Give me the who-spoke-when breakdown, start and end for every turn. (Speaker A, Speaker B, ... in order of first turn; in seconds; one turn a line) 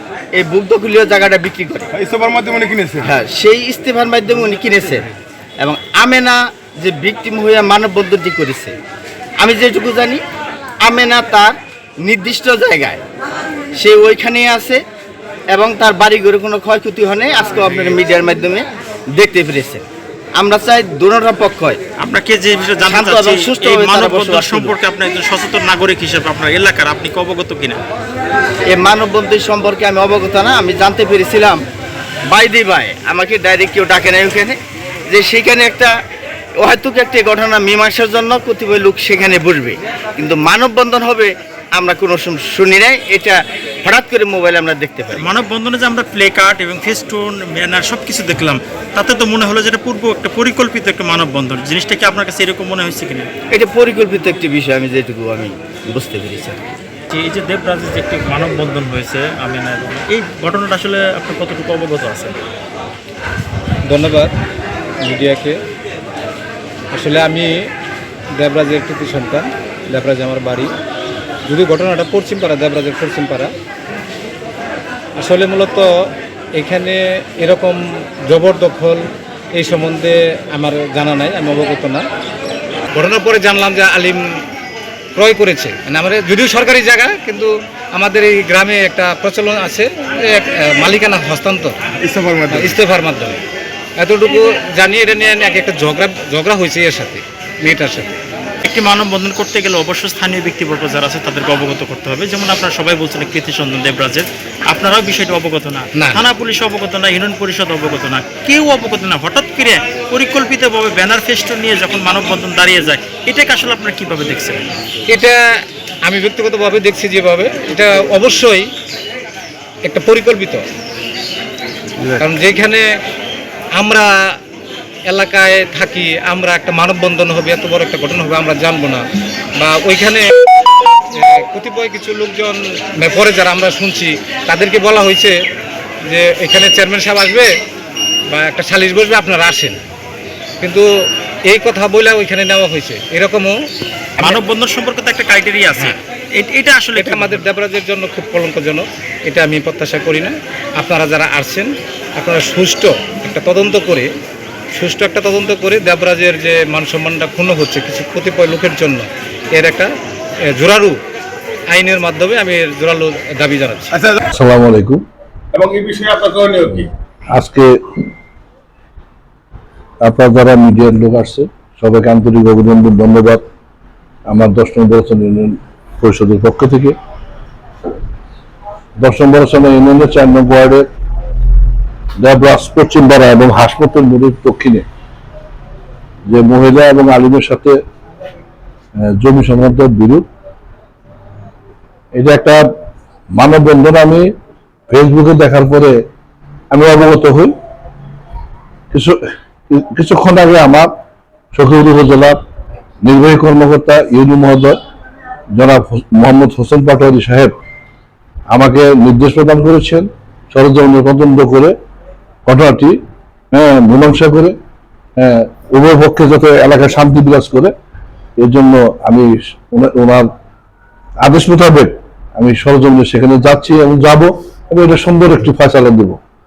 Speaker A: 0.3-1.9
Speaker B: 1.9-3.1
Speaker A: 3.0-5.1
Speaker A: 5.6-8.8
Speaker A: 9.4-10.2
Speaker A: 10.8-13.0
Speaker A: 13.8-14.8
Speaker A: 15.5-19.9
Speaker A: 20.4-21.8
Speaker C: 22.0-27.8
Speaker A: 22.9-24.8
Speaker A: 28.7-31.6
Speaker A: 32.3-34.6
Speaker A: 35.1-35.9
Speaker A: 36.6-45.3
Speaker C: 45.1-53.3
Speaker A: 53.5-56.7
Speaker C: 57.1-62.4
Speaker D: 63.9-64.3
Speaker D: 65.0-65.6
Speaker D: 66.9-67.5
Speaker D: 68.4-70.7
Speaker D: 71.5-73.5
Speaker D: 75.2-75.9
Speaker D: 76.5-82.0
Speaker D: 82.9-84.2
Speaker D: 85.2-91.7
Speaker B: 92.0-92.8
Speaker D: 92.5-93.4
Speaker D: 94.0-98.1
Speaker C: 98.7-114.6
Speaker D: 105.9-106.2
Speaker D: 115.1-115.4
Speaker D: 116.0-118.7
Speaker D: 119.8-120.7
Speaker D: 122.2-122.9
Speaker D: 123.8-124.1
Speaker D: 125.1-129.0
Speaker D: 129.6-130.5
Speaker D: 131.1-135.4
Speaker D: 136.1-137.5
Speaker D: 138.3-139.8
Speaker D: 140.6-140.9
Speaker D: 141.5-143.6
Speaker C: 144.2-147.4
Speaker D: 147.0-154.1
Speaker D: 154.8-159.9
Speaker D: 160.5-161.0
Speaker D: 161.7-163.9
Speaker E: 164.3-165.0
Speaker B: 165.5-166.9
Speaker E: 167.3-168.0
Speaker E: 170.0-173.4
Speaker E: 174.3-177.0
Speaker E: 179.0-180.9
Speaker E: 182.2-184.9
Speaker E: 186.3-187.8
Speaker E: 189.0-190.3
Speaker E: 192.2-192.7
Speaker E: 193.3-194.3
Speaker E: 194.9-196.0
Speaker E: 196.7-197.6
Speaker E: 198.9-199.2
Speaker E: 199.7-200.9
Speaker E: 201.5-202.4
Speaker E: 203.0-204.8
Speaker E: 205.6-207.6
Speaker E: 208.5-211.7
Speaker E: 212.5-213.0
Speaker E: 213.5-214.6
Speaker E: 215.2-217.7
Speaker E: 218.4-220.3
Speaker E: 221.2-226.2